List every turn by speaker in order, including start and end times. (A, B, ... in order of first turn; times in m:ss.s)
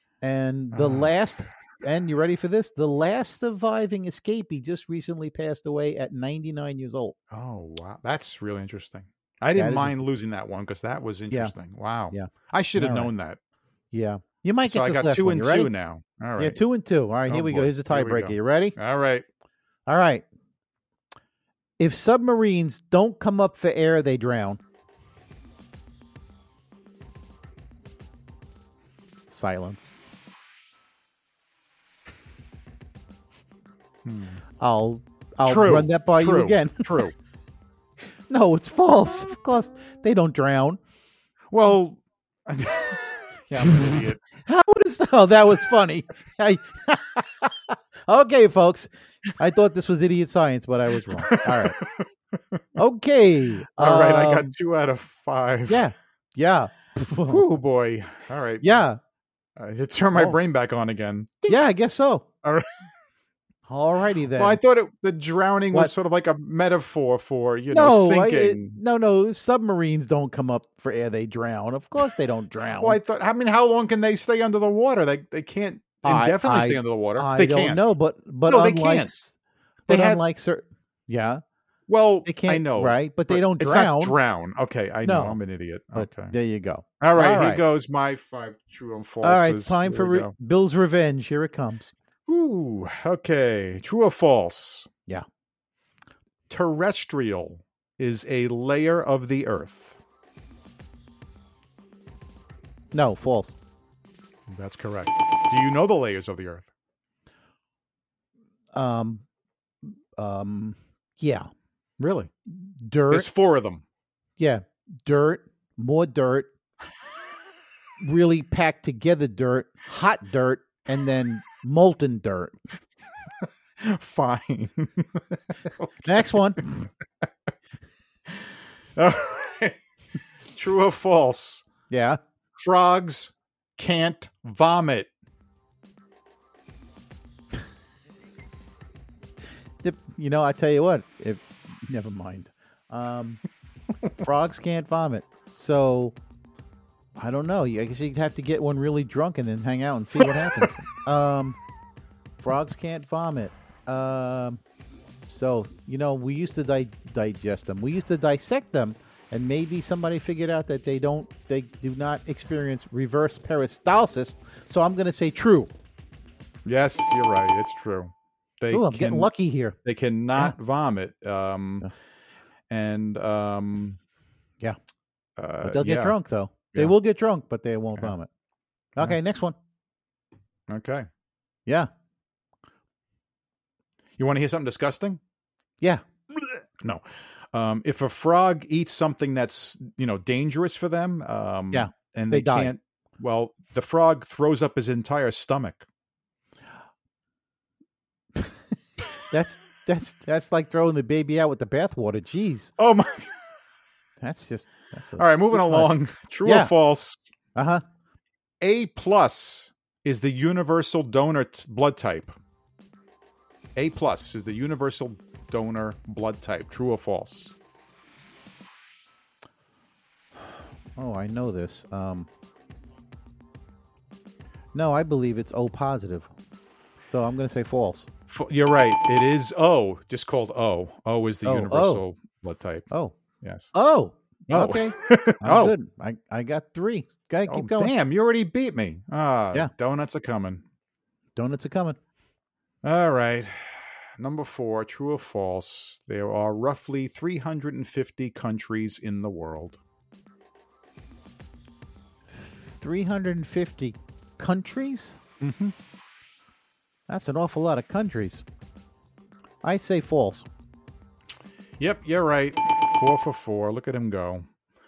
0:00.2-0:07.2 A
0:00.7-0:01.1 B
0:07.3-0:13.4 B
0:09.5-0:10.0 A
0:12.1-0:13.1 A
0:13.9-0:15.7 A
0:14.6-0:16.6 B
0:16.4-0:18.8 A
0:17.2-0:19.2 B
0:19.9-0:20.2 A
0:21.8-0:24.6 A
0:29.3-0:30.0 A
0:34.0-0:34.4 B
0:34.6-0:36.8 A
0:35.4-0:37.1 B
0:38.3-0:40.8 A
0:41.5-0:44.2 B
0:43.5-0:51.8 A
0:51.1-0:52.6 B
0:52.8-0:54.5 A
0:53.7-0:55.8 B
0:55.7-0:57.4 A
0:57.3-0:58.8 B
0:58.6-0:59.0 A
0:59.6-1:01.6 B
1:01.5-1:02.2 A
1:02.4-1:02.7 B
1:03.7-1:04.6 A
1:04.3-1:08.8 B
1:07.7-1:13.0 A
1:12.8-1:17.9 B
1:16.0-1:19.3 A
1:18.4-1:19.1 B
1:19.9-1:20.2 B
1:19.9-1:21.4 A
1:21.9-1:26.3 B
1:22.2-1:24.2 A
1:25.0-1:25.4 A
1:25.9-1:27.6 A
1:27.0-1:30.3 B
1:29.2-1:31.9 A
1:32.3-1:34.9 B
1:36.5-1:40.0 B
1:42.9-1:43.5 A
1:44.5-1:46.7 B
1:48.7-1:49.2 A
1:49.8-1:51.5 A
1:52.0-1:52.3 B
1:52.5-1:53.3 A
1:53.1-1:53.8 B
1:54.4-1:56.5 A
1:58.0-2:02.6 A
2:03.8-2:06.7 B
2:06.0-2:06.8 A
2:08.3-2:09.8 B
2:10.5-2:11.6 B
2:11.9-2:12.2 A
2:12.6-2:15.1 B
2:19.8-2:23.4 A
2:24.2-2:26.1 A
2:27.2-2:31.6 A
2:30.2-2:30.8 B
2:32.4-2:34.6 A
2:35.3-2:45.7 A
2:46.6-2:49.3 B
2:48.7-2:49.8 A
2:49.8-2:51.9 B
2:52.7-2:54.0 B
2:55.4-2:56.2 B
2:55.6-2:58.3 A
2:59.0-2:59.6 A
3:00.7-3:01.1 B
3:04.2-3:05.2 B
3:06.8-3:15.8 B
3:11.7-3:12.7 A
3:19.3-3:22.7 A
3:22.8-3:23.3 B
3:24.2-3:25.9 A
3:25.2-3:27.3 B
3:26.4-3:26.7 A
3:27.5-3:27.8 A
3:28.6-3:32.4 B
3:33.8-3:37.5 B
3:41.0-3:42.3 A
3:44.7-3:46.3 A
3:47.1-3:48.1 A
3:48.3-3:52.9 B
3:51.4-3:52.0 A
3:53.4-3:53.7 B
3:53.7-3:57.9 A
3:54.5-3:55.7 B
3:57.5-4:00.6 B
4:01.4-4:02.0 A
4:02.8-4:09.8 B
4:12.3-4:15.2 A
4:15.4-4:15.7 B
4:17.1-4:18.4 A
4:19.6-4:20.4 A
4:21.8-4:24.5 B